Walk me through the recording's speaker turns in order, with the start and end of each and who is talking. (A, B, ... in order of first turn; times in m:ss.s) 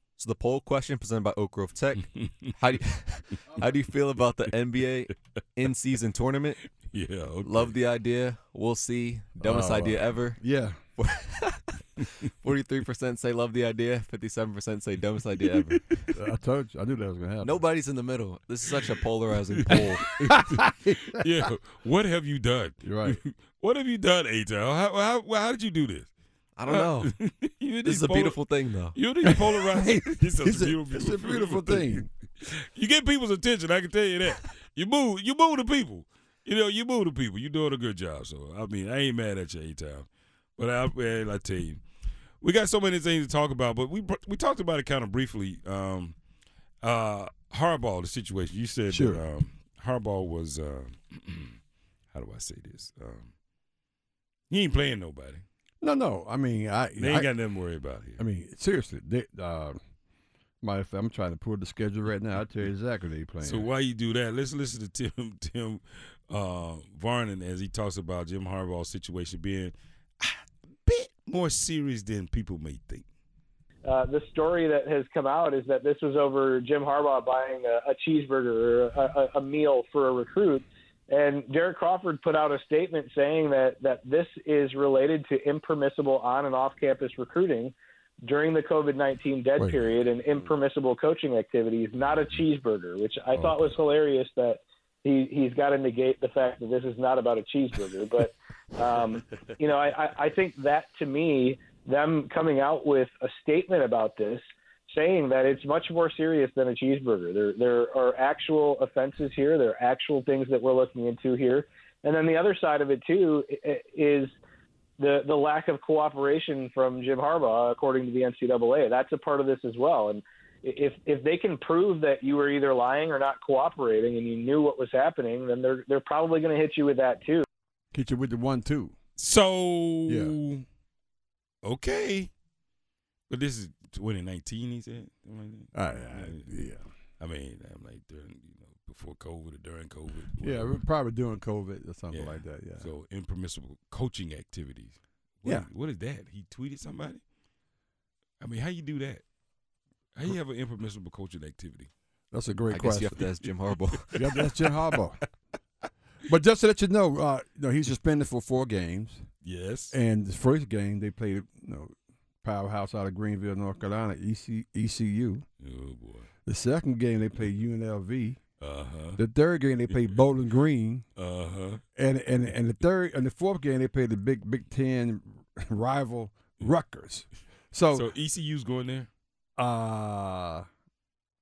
0:00.2-0:06.6 A
0:02.0-0:02.3 B
0:06.8-0:07.8 B
0:07.4-0:10.4 A
0:09.4-0:10.8 C
0:11.0-0:16.0 A
0:16.1-0:17.6 C
0:17.4-0:20.0 A
0:20.0-0:26.1 B
0:20.1-0:21.0 C
0:22.8-0:23.2 C
0:26.6-0:27.1 A
0:26.7-0:41.8 B
0:27.8-0:29.0 A
0:29.3-0:32.1 C
0:42.4-0:46.2 B
0:46.8-0:51.6 B
0:48.9-0:49.2 C
0:52.1-0:53.3 B
0:54.5-0:55.4 B
0:55.8-0:57.3 C
0:57.0-0:58.2 B
0:58.2-0:59.8 C
1:00.6-1:03.7 C
1:03.4-1:13.0 B
1:13.8-1:27.7 D
1:28.2-1:54.3 D
1:29.6-1:29.9 C
1:33.3-1:33.8 C
1:55.0-2:07.4 D
2:07.9-2:08.9 C
2:09.2-2:10.6 B
2:10.1-2:10.4 C
2:11.6-2:12.3 B
2:13.3-2:16.4 B
2:15.7-2:16.8 C
2:17.2-2:20.8 B
2:20.4-2:22.9 C
2:22.1-2:27.2 B
2:28.4-2:29.2 B
2:30.1-2:31.9 B
2:32.3-2:33.3 C
2:32.7-2:34.1 A
2:34.1-2:35.2 C
2:36.2-2:39.2 C
2:39.4-2:40.0 B
2:39.9-2:45.4 C
2:45.6-2:46.3 B
2:46.4-2:48.4 C
2:48.6-2:49.2 B
2:49.2-2:51.0 C
2:51.2-2:51.8 B
2:52.0-2:58.1 C
2:57.9-2:59.1 B
2:59.6-3:00.6 C